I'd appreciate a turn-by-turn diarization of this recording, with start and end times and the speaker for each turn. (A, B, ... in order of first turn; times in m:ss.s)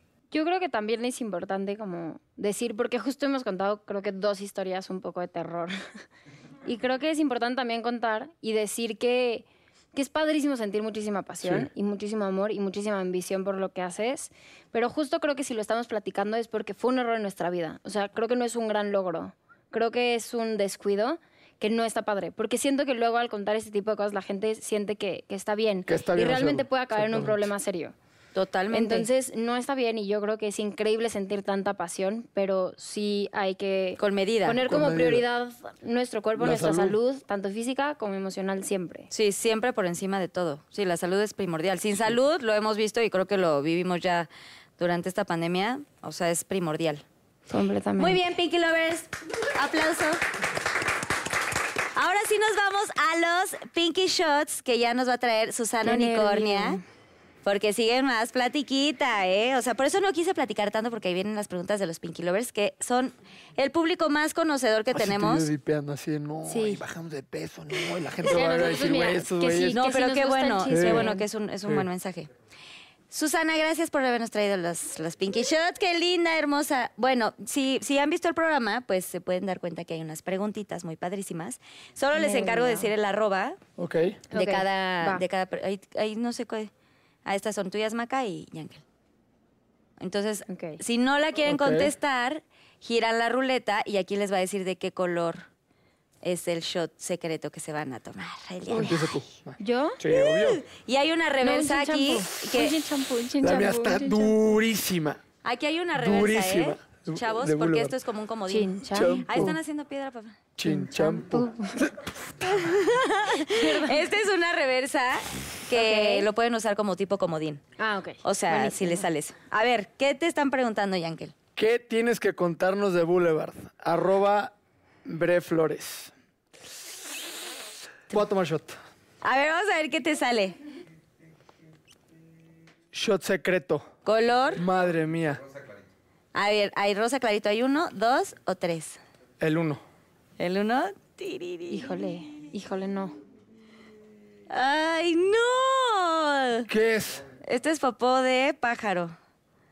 0:00.3-0:05.8 A
0:06.6-0:27.9 A
0:11.4-0:11.7 B
0:25.9-0:27.5 B
0:28.3-0:29.1 C
0:28.7-0:39.1 A
0:34.0-0:34.6 C
0:34.6-0:35.2 B
0:36.4-0:37.0 B
0:39.1-0:47.0 C
0:47.5-0:48.2 A
0:48.0-0:50.2 C
0:51.9-0:56.8 C
0:55.8-0:56.8 A
0:57.4-1:05.5 C
1:04.9-1:09.8 B
1:06.4-1:06.8 A
1:08.2-1:11.2 A
1:09.7-1:12.3 C
1:10.7-1:11.1 B
1:13.1-1:23.6 C
1:22.1-1:22.9 A
1:23.8-1:24.2 B
1:24.3-1:25.2 A
1:24.3-1:26.7 C
1:27.2-1:28.8 C
1:30.0-1:35.4 C
1:30.5-1:30.8 A
1:31.4-1:31.9 B
1:36.2-1:39.1 C
1:38.7-1:40.6 B
1:39.6-1:40.0 A
1:40.1-1:42.8 C
1:41.4-1:44.3 A
1:43.4-1:45.2 B
1:45.4-1:50.4 C
1:46.0-1:47.9 B
1:48.5-1:49.4 A
1:48.9-1:49.6 B
1:50.6-1:51.9 B
1:50.6-1:51.9 A
1:52.4-1:57.6 C
1:53.3-1:54.1 A
1:55.7-1:56.3 A
1:57.8-1:59.0 A
1:58.2-2:01.3 C
2:01.6-2:04.5 B
2:05.0-2:06.1 B
2:08.1-2:08.8 B
2:09.2-2:10.6 C
2:12.9-2:13.9 B
2:14.0-2:14.6 C
2:14.6-2:15.4 B
2:16.3-2:19.0 C
2:19.4-2:19.8 B
2:20.4-2:21.9 C
2:21.7-2:23.2 A
2:24.5-2:26.7 C
2:26.7-2:27.2 B
2:27.4-2:29.1 C